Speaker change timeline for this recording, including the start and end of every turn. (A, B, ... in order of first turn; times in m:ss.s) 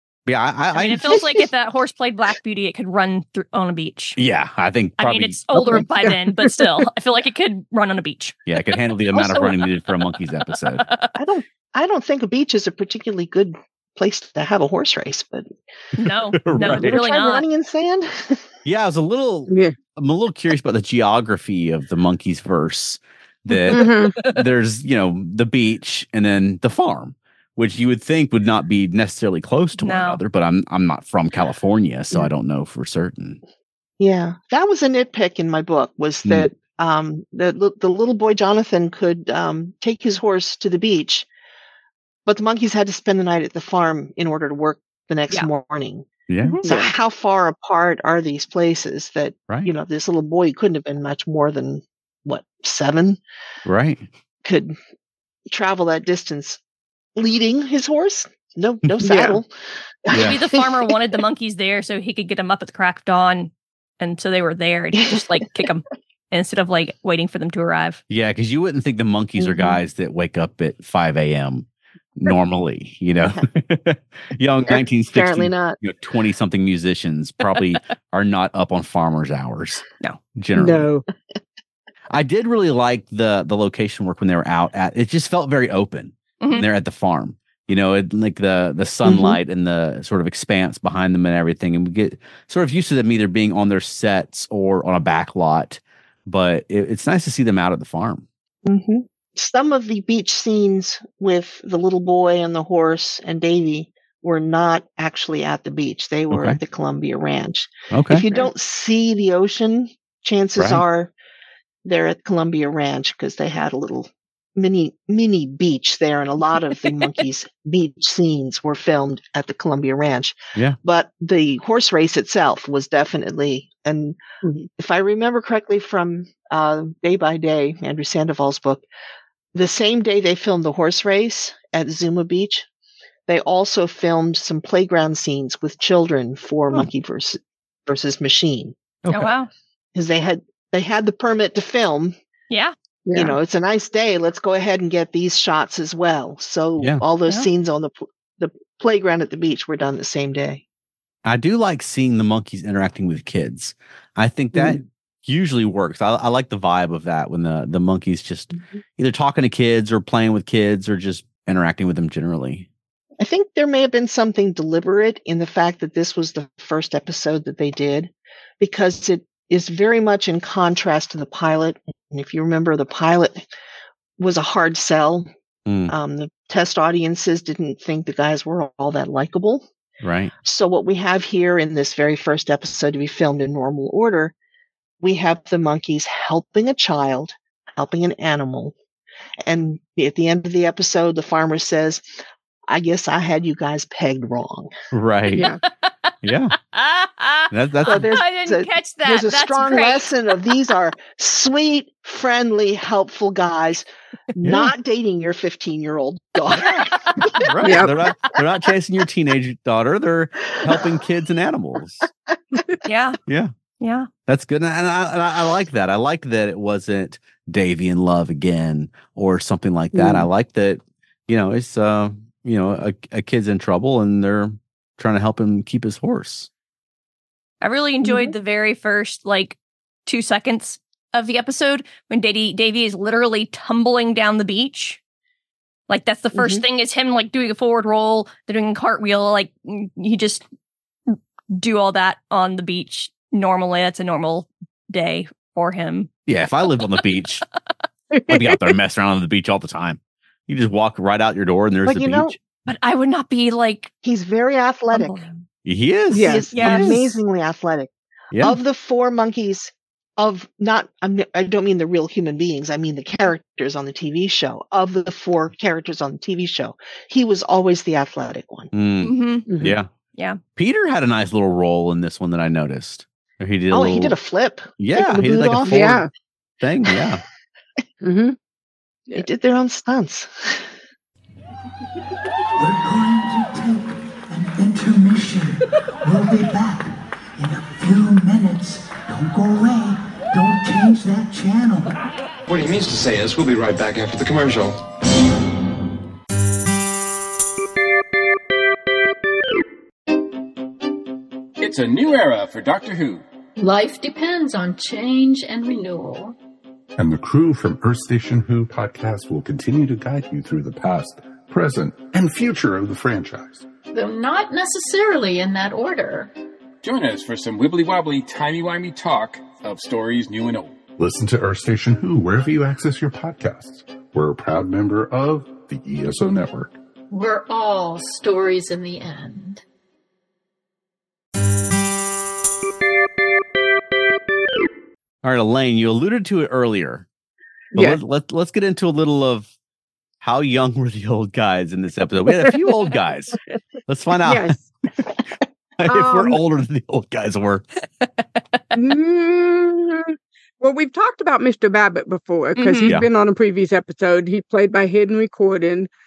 0:00.2-0:01.2 A
0:00.7-0:04.2 B
0:04.2-0:05.8 A
0:05.0-0:08.5 B
0:05.7-0:06.7 C
0:08.4-0:10.8 A
0:09.1-0:09.5 B
0:10.5-0:11.1 B
0:11.1-0:15.5 D
0:16.0-0:17.4 B
0:16.4-0:16.9 A
0:16.7-0:18.4 D
0:18.6-0:33.4 A
0:19.5-0:19.7 C
0:23.7-0:24.1 C
0:23.7-0:24.4 B
0:29.8-0:30.2 B
0:34.0-0:41.3 D
0:42.2-0:46.1 D
0:46.3-0:46.6 A
0:46.6-0:46.9 C
0:46.6-0:53.2 D
0:53.6-0:54.0 A
0:54.4-0:54.8 D
0:55.5-0:56.6 D
0:57.2-0:59.5 D
0:59.0-0:59.4 C
1:00.0-1:00.8 D
1:00.1-1:00.4 A
1:00.1-1:08.0 B
1:08.1-1:19.8 A
1:09.4-1:09.8 D
1:14.6-1:15.8 D
1:20.3-1:20.9 A
1:20.6-1:21.0 C
1:22.1-1:38.2 A
1:29.0-1:29.4 D
1:38.6-1:51.1 D
1:46.3-1:46.6 A
1:47.9-1:48.2 A
1:50.6-1:50.8 A
1:51.8-2:04.2 D
2:04.8-2:08.8 D
2:09.5-2:12.6 D
2:13.3-2:18.7 D
2:19.0-2:19.3 A
2:19.1-2:19.5 B
2:19.9-2:22.2 D
2:23.0-2:23.4 C
2:23.1-2:30.6 D
2:31.2-2:42.7 A
2:34.5-2:34.8 C
2:43.2-2:53.4 D
2:54.2-2:55.3 D
2:55.7-2:55.9 A
2:55.9-2:59.7 D
3:00.0-3:00.3 A
3:00.4-3:04.3 D
3:05.0-3:08.7 D
3:09.4-3:12.0 D
3:12.7-3:14.7 D
3:14.9-3:15.4 A
3:15.3-3:15.6 C
3:15.3-3:16.1 B
3:16.2-3:16.5 A
3:16.7-3:20.1 B
3:17.5-3:18.1 A
3:17.8-3:27.4 D
3:24.4-3:24.7 A
3:27.3-3:32.1 A
3:27.6-3:27.9 C
3:32.8-3:33.2 B
3:33.3-3:33.5 A
3:33.8-3:34.1 B
3:34.2-3:46.5 A
3:39.9-3:40.3 C
3:47.6-3:55.0 B
3:48.0-3:48.3 C
3:55.9-4:00.4 B
3:56.3-3:56.6 D
4:01.1-4:06.1 B
4:06.3-4:07.4 A
4:08.1-4:08.7 C
4:08.3-4:12.4 A
4:11.8-4:12.3 D
4:12.6-4:13.9 B
4:14.0-4:15.2 D
4:14.9-4:15.4 B
4:15.6-4:17.0 A
4:16.1-4:16.4 C
4:16.1-4:28.7 D
4:16.5-4:17.1 B
4:18.3-4:18.6 A
4:28.7-4:29.9 A
4:29.0-4:29.4 B
4:29.5-4:29.8 C
4:30.1-4:30.4 B
4:30.6-4:34.1 A
4:33.7-4:36.0 D
4:34.8-4:36.0 A
4:35.7-4:36.1 C
4:36.6-4:37.2 A
4:38.0-4:38.4 C
4:39.1-4:40.7 D
4:42.5-4:52.0 E
4:52.5-4:54.8 F
5:01.6-5:03.2 G
5:03.6-5:06.4 H
5:07.0-5:13.7 I
5:13.9-5:16.3 H
5:16.8-5:20.8 G
5:21.0-5:26.8 I
5:27.1-5:29.6 H
5:35.2-5:37.0 A
5:37.7-5:38.0 C
5:37.7-5:39.5 A
5:40.2-5:44.6 A
5:44.2-5:44.7 C
5:45.8-5:47.6 A
5:45.8-5:46.4 C
5:48.0-5:48.6 B
5:48.7-5:55.9 C
5:52.6-5:52.9 B